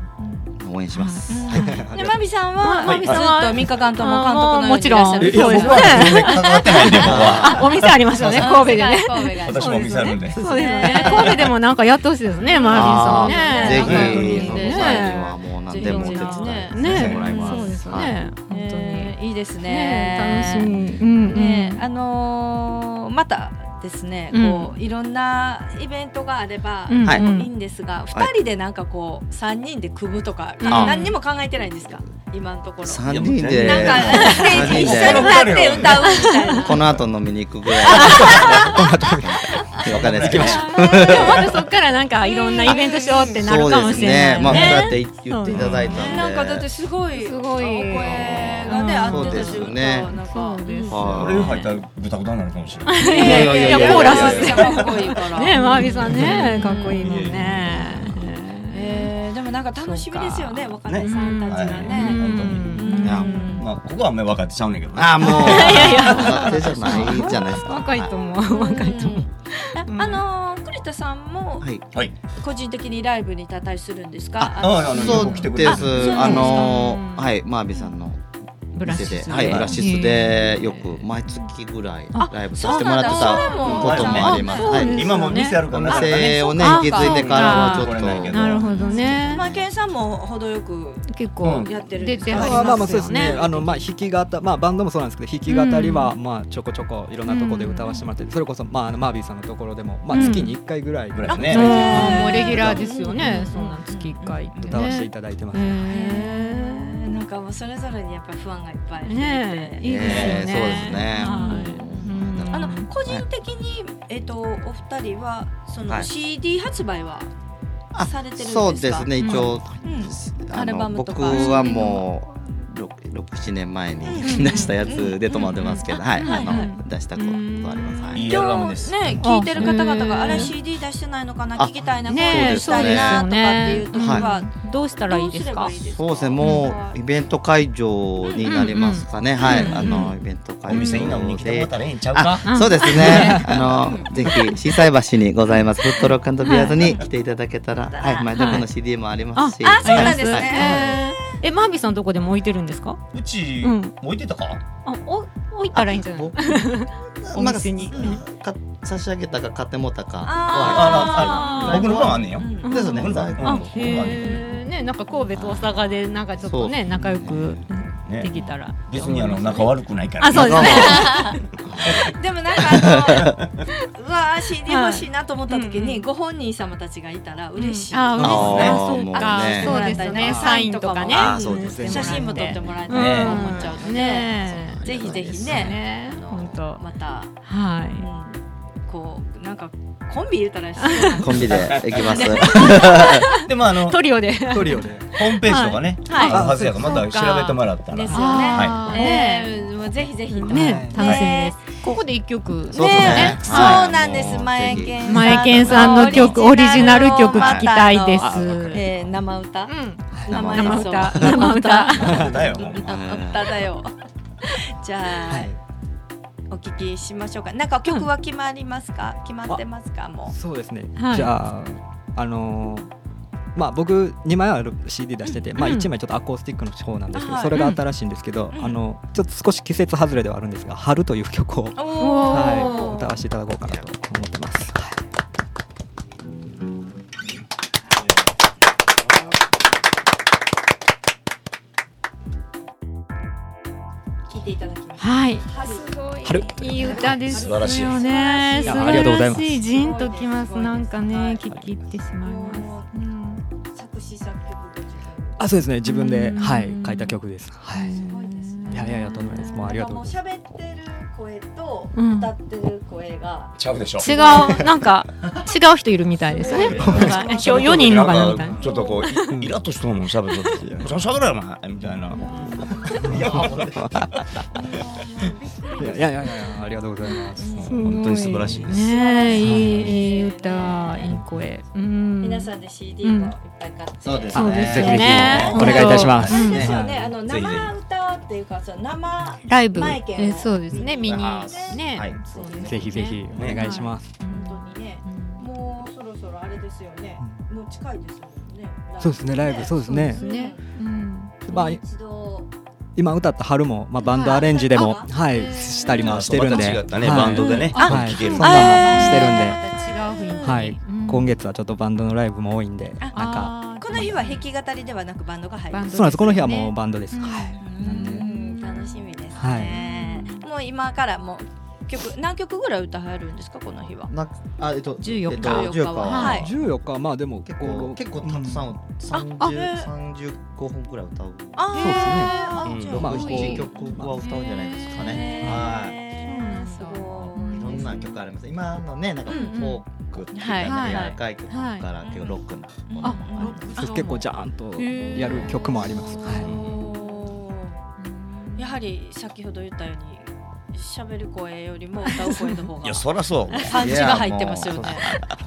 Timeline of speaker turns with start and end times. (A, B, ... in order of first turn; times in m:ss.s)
0:00.2-0:00.5 A
0:00.5-0:02.1 B
0:00.9-0:01.9 C
0:01.3-0:07.3 A
0:01.7-0:02.1 D
0:02.5-0:21.8 C
0:02.8-0:03.2 E
0:05.2-0:08.6 E
0:07.0-0:07.7 B
0:08.4-0:11.4 A
0:09.3-0:11.5 E
0:10.8-0:11.2 B
0:12.4-0:36.8 A
0:12.6-0:18.2 B
0:13.7-0:14.3 E
0:16.8-0:17.3 E
0:24.3-0:24.8 C
0:26.9-0:27.6 C
0:30.6-0:31.1 C
0:30.7-0:31.1 B
0:32.8-0:35.4 B
0:33.0-0:37.0 E
0:36.1-0:36.6 C
0:36.5-0:41.5 B
0:37.8-0:38.8 A
0:37.9-0:38.8 E
0:38.6-0:39.5 D
0:39.8-0:41.6 E
0:40.2-0:40.6 D
0:40.4-0:45.6 C
0:42.2-0:45.0 A
0:43.3-0:46.6 B
0:45.5-0:46.0 E
0:45.9-0:51.6 A
0:47.1-0:51.5 C
0:48.0-0:50.1 B
0:50.9-0:51.5 B
0:51.1-0:53.3 E
0:52.8-0:59.1 C
0:53.0-0:57.5 A
0:53.1-0:54.9 B
0:54.1-0:54.7 E
0:56.0-0:58.1 E
0:58.7-1:03.7 A
0:59.8-1:03.6 C
1:00.7-1:02.8 E
1:03.0-1:03.3 B
1:03.6-1:06.4 E
1:04.9-1:08.2 B
1:05.3-1:07.4 A
1:05.4-1:10.2 C
1:08.4-1:11.7 A
1:12.4-1:16.7 A
1:14.4-1:16.4 E
1:14.8-1:18.2 B
1:14.9-1:15.2 C
1:16.1-1:17.3 C
1:18.7-1:21.1 C
1:18.8-1:28.6 B
1:19.3-1:19.8 E
1:22.1-1:25.6 C
1:22.6-1:22.8 E
1:22.6-1:33.8 A
1:23.5-1:29.7 E
1:26.5-1:29.4 C
1:31.0-1:33.7 C
1:31.4-1:31.7 E
1:32.3-1:42.8 D
1:35.5-1:36.2 C
1:37.3-1:37.9 C
1:40.1-1:40.6 C
1:40.1-1:40.5 A
1:41.1-1:42.0 E
1:41.3-1:45.0 A
1:41.4-1:47.2 C
1:44.6-1:45.8 D
1:45.8-1:57.3 A
1:49.0-1:52.9 C
1:49.8-1:53.2 B
1:50.0-1:50.4 E
1:57.9-2:08.2 B
1:57.9-2:02.0 A
1:59.2-1:59.5 C
2:01.3-2:01.8 C
2:04.0-2:06.8 A
2:04.2-2:04.8 C
2:05.3-2:08.2 C
2:08.1-2:09.7 E
2:08.1-2:17.0 A
2:09.1-2:10.5 C
2:11.6-2:13.2 B
2:12.0-2:15.8 C
2:13.9-2:14.3 B
2:15.7-2:31.0 B
2:16.4-2:16.7 C
2:18.3-2:20.1 A
2:18.5-2:20.1 C
2:20.6-2:22.5 E
2:22.4-2:23.6 C
2:22.8-2:24.3 A
2:23.0-2:24.0 E
2:26.0-2:26.8 C
2:26.8-2:27.0 A
2:27.9-2:28.3 A
2:28.3-2:28.7 C
2:29.3-2:33.0 C
2:29.6-2:31.1 A
2:33.1-2:34.6 E
2:33.6-2:34.0 C
2:34.8-2:38.2 C
2:35.7-2:44.2 B
2:37.9-2:38.2 A
2:40.2-2:42.9 A
2:40.5-2:44.5 E
2:41.0-2:41.9 C
2:42.5-2:51.4 C
2:45.3-2:45.8 B
2:46.3-2:47.7 B
2:48.0-2:52.1 E
2:50.3-2:51.0 B
2:50.5-2:51.3 A
2:51.6-2:52.0 B
2:51.9-2:53.3 A
2:52.6-2:53.3 B
2:54.0-3:12.9 A
2:54.6-2:56.1 C
2:57.6-3:06.8 C
2:58.2-2:59.8 B
2:58.4-2:58.8 E
3:00.1-3:00.6 D
3:01.1-3:03.3 B
3:01.5-3:02.4 D
3:02.9-3:03.9 E
3:04.8-3:05.7 D
3:07.4-3:08.1 C
3:10.8-3:11.3 C
3:11.2-3:13.3 B
3:11.6-3:12.5 E
3:12.6-3:16.4 C
3:13.3-3:14.0 E
3:14.5-3:15.2 D
3:15.1-3:18.9 E
3:16.0-3:21.8 A
3:16.2-3:17.0 D
3:18.1-3:19.6 C
3:20.2-3:23.9 C
3:20.5-3:21.0 D
3:20.9-3:21.2 E
3:22.7-3:27.7 B
3:22.7-3:35.5 A
3:25.0-3:28.9 C
3:28.2-3:28.8 D
3:29.6-3:32.1 C
3:30.3-3:31.5 B
3:32.0-3:33.3 E
3:32.0-3:32.4 D
3:32.8-3:33.5 B
3:35.3-3:35.6 D
3:36.5-3:40.3 A
3:40.3-3:42.9 D
3:41.0-3:41.3 C
3:43.5-3:55.0 D
3:45.2-3:45.7 A
3:45.6-3:45.9 C
3:47.1-3:47.6 A
3:47.5-3:47.8 C
3:48.5-3:48.8 A
3:51.8-3:53.2 A
3:52.0-3:52.9 C
3:53.6-3:53.9 B
4:04.3-4:11.6 A
4:05.0-4:13.4 C
4:06.2-4:07.4 D
4:07.3-4:08.0 E
4:08.6-4:09.6 D
4:12.2-4:12.9 A
4:13.7-4:15.4 A
4:15.4-4:18.0 D
4:15.8-4:17.2 C
4:17.7-4:24.6 A
4:17.7-4:19.5 C
4:18.7-4:20.2 D
4:21.9-4:22.3 C
4:23.6-4:24.1 E
4:24.0-4:29.4 C
4:26.4-4:29.0 A
4:26.7-4:27.3 D
4:26.7-4:34.1 E
4:30.6-4:30.9 D
4:32.1-4:32.6 A
4:32.3-4:34.1 D
4:32.9-4:33.9 B
4:34.7-4:36.2 A
4:35.8-4:37.6 D
4:37.4-4:37.9 A
4:37.5-4:38.9 E
4:37.6-4:43.3 C
4:38.6-4:41.2 A
4:39.4-4:39.9 D
4:42.2-4:53.2 A
4:44.0-4:46.8 B
4:44.3-4:47.7 E
4:44.3-4:46.9 D
4:44.4-4:46.8 C
4:49.4-4:55.5 C
4:50.7-4:52.2 B
4:52.6-4:54.2 D
4:53.3-4:53.6 E
4:54.1-5:00.6 A
4:59.0-5:00.2 D
4:59.8-5:01.4 C
5:01.4-5:01.8 D
5:01.5-5:02.5 A
5:03.0-5:09.6 D
5:04.0-5:05.1 A
5:05.3-5:06.1 C
5:06.0-5:09.2 E
5:07.1-5:10.7 A
5:07.7-5:11.3 C
5:10.4-5:14.1 D
5:13.0-5:24.1 A
5:13.1-5:14.4 C
5:15.7-5:19.0 C
5:15.9-5:18.2 D
5:19.3-5:19.7 D
5:19.7-5:20.5 C
5:24.1-5:26.5 B
5:25.0-5:26.4 C
5:25.4-5:26.5 A
5:26.3-5:28.8 D
5:27.4-5:36.0 B
5:29.1-5:29.9 A
5:31.6-5:33.9 A
5:31.8-5:32.4 D
5:31.8-5:38.0 C
5:32.6-5:33.1 E
5:32.9-5:34.1 D
5:34.9-5:38.0 A
5:37.4-5:43.6 B
5:39.3-5:39.8 C
5:39.3-5:39.6 A
5:40.3-5:41.1 A
5:40.6-5:41.9 C
5:42.0-5:44.0 A
5:43.0-5:47.3 C
5:43.8-5:46.5 D
5:45.1-5:45.5 A
5:46.2-5:47.8 A
5:48.0-5:48.8 C
5:48.6-5:55.1 A
5:52.0-5:52.7 C
5:52.8-5:53.8 E
5:53.7-5:55.2 B